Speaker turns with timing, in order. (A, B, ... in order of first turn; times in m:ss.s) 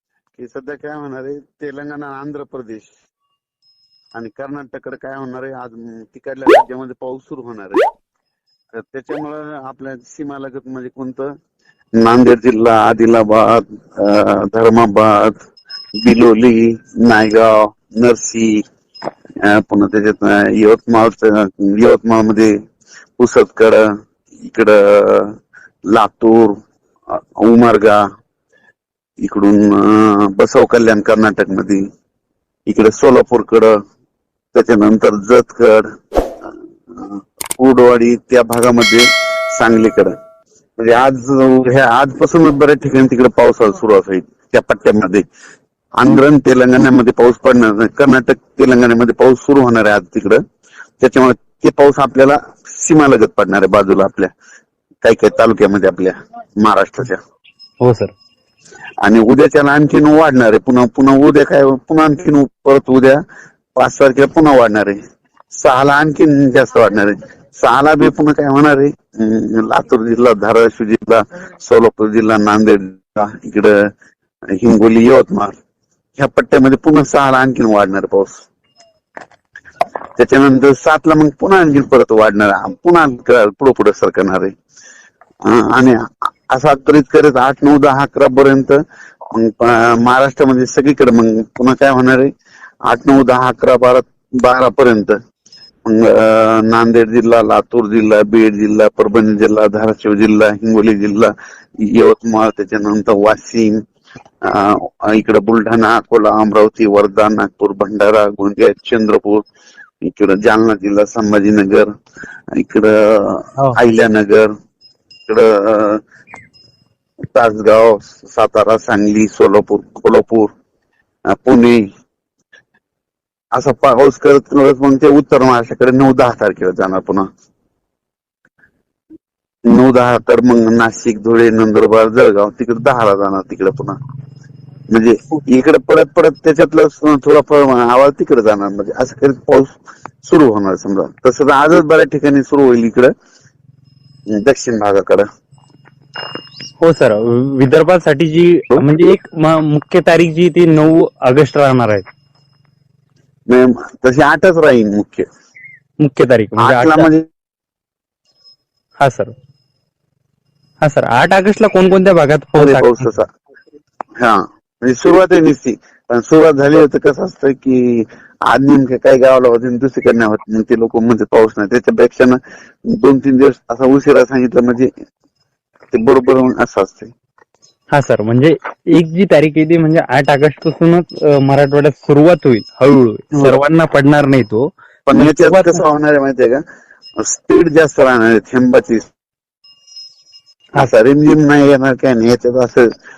0:00.4-0:02.9 A
0:04.2-0:07.9 A
0:08.7-0:11.3 A
0:12.0-0:15.4 A
0:16.0-0:18.6 A
0:19.4-0:22.5 A
0:23.2-0:23.9 A
0:24.4-0:25.4 A
0:25.9-0:26.6 A
0:27.1-0:28.0 A
0:29.2-0:31.8 A
0:32.7-0:33.8 A
0:34.5-0:35.9 A
0:36.4-0:40.1 A
0:40.8-0:45.2 A
0:46.0-0:50.4 A
0:51.0-0:54.3 A
0:55.0-0:57.2 A
0:57.8-0:58.1 B
0:59.0-1:03.2 A
1:03.8-1:05.0 A
1:05.5-1:13.7 A
1:14.5-1:15.5 A
1:16.2-1:18.4 A
1:20.2-1:24.5 A
1:25.4-1:28.8 A
1:29.3-1:32.3 A
1:32.9-1:35.2 A
1:35.8-1:43.8 A
1:44.4-1:49.4 A
1:50.0-1:51.9 A
1:52.6-1:54.5 A
1:55.3-1:56.0 A
1:57.3-2:00.5 A
2:01.4-2:01.8 A
2:03.5-2:07.3 A
2:09.7-2:14.0 A
2:14.9-2:23.1 A
2:24.3-2:25.3 A
2:26.8-2:32.1 B
2:33.5-2:35.3 A
2:36.0-2:37.1 B
2:36.6-2:37.3 A
2:39.0-2:39.3 B
2:40.8-2:43.1 B
2:42.6-2:43.3 A
2:44.2-2:54.9 A
2:55.9-2:57.1 A
2:57.9-3:05.8 B
3:05.1-3:06.6 A
3:07.2-3:09.1 A
3:10.8-3:12.8 A